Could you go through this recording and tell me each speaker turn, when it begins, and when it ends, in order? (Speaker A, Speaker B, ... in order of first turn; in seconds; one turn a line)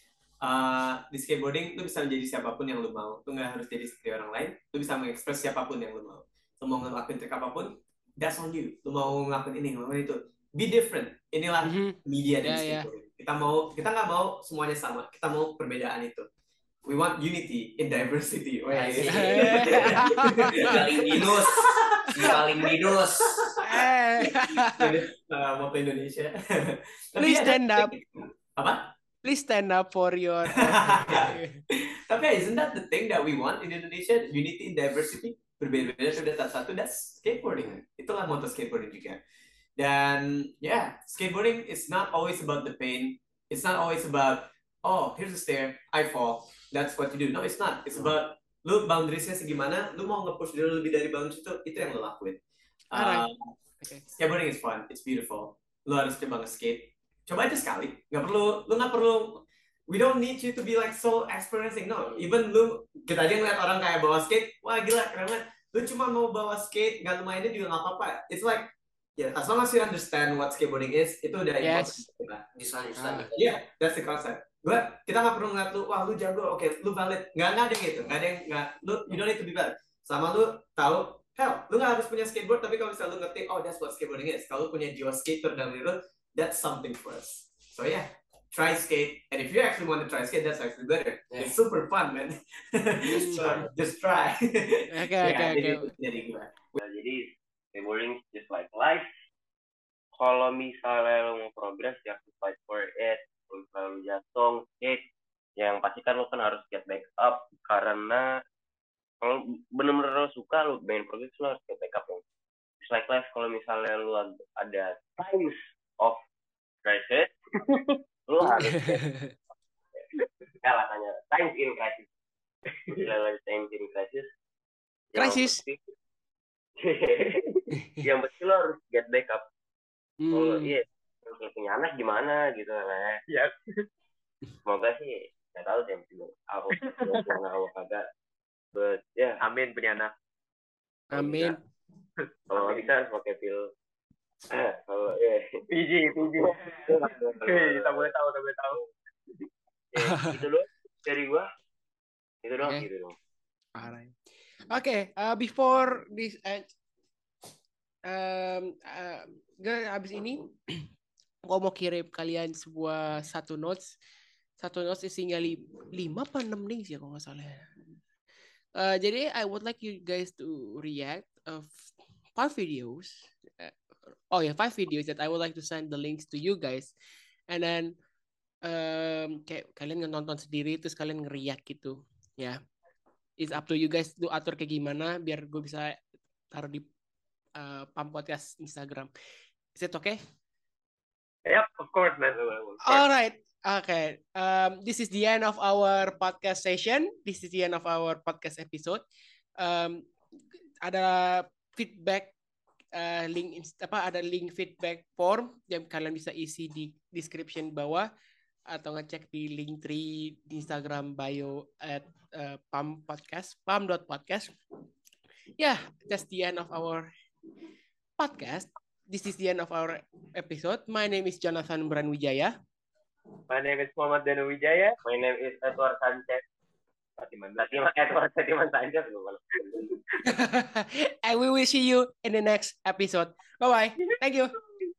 Speaker A: 0.4-16.3
Speaker B: 11.6-12.9
Speaker A: 16.8-23.6
Speaker C: 18.7-23.6
Speaker B: 19.1-21.2
Speaker B: 23.6-24.9
Speaker A: 24.6-28.9
Speaker B: 27.1-27.9
Speaker B: 29.2-31.6
Speaker A: 30.5-39.2
Speaker A: 39.8-52.4
Speaker A: 52.9-53.5
Speaker B: 52.9-53.2
Speaker A: 54.1-72.4
Speaker B: 71.6-72.0
Speaker C: 72.5-73.6
Speaker B: 73.0-73.3
Speaker A: 73.3-96.8
Speaker B: 93.0-93.5
Speaker C: 93.2-93.7
Speaker B: 94.9-95.9
Speaker D: 96.8-99.1
Speaker D: 100.1-105.0
Speaker D: 105.6-108.3
Speaker D: 109.2-112.2
Speaker D: 112.8-116.2
Speaker D: 116.8-117.3
Speaker D: 118.2-119.1
Speaker B: 118.6-119.3
Speaker D: 120.6-122.1
Speaker D: 122.9-124.3
Speaker D: 125.1-125.8
Speaker B: 125.2-125.6
Speaker D: 126.8-129.4
Speaker B: 130.2-130.8
Speaker D: 130.3-133.3
Speaker D: 134.6-138.1
Speaker E: 136.8-137.2
Speaker D: 138.7-139.4
Speaker E: 139.4-140.1
Speaker B: 141.1-141.6
Speaker D: 141.1-141.6
Speaker D: 142.5-143.7
Speaker E: 142.5-143.0
Speaker D: 144.5-148.1
Speaker E: 145.7-148.9
Speaker D: 149.9-151.5
Speaker B: 150.0-150.4
Speaker D: 152.4-153.2
Speaker B: 153.8-156.7
Speaker B: 158.1-160.9
Speaker B: 161.4-163.9
Speaker B: 164.6-167.9
Speaker B: 168.7-173.8
Speaker B: 174.3-176.9
Speaker B: 177.5-177.9
Speaker B: 178.6-182.6
Speaker B: 183.4-186.8
Speaker B: 187.6-189.1
Speaker B: 189.7-190.2
Speaker E: 191.4-192.8
Speaker B: 192.8-199.0
Speaker B: 199.6-200.1
Speaker B: 200.8-202.3
Speaker B: 202.9-208.1
Speaker B: 208.7-214.5
Speaker B: 215.6-217.1
Speaker B: 218.2-222.5
Speaker D: 223.5-224.2
Speaker E: 223.5-224.9
Speaker D: 224.9-226.4
Speaker D: 227.2-229.9
Speaker B: 230.2-234.5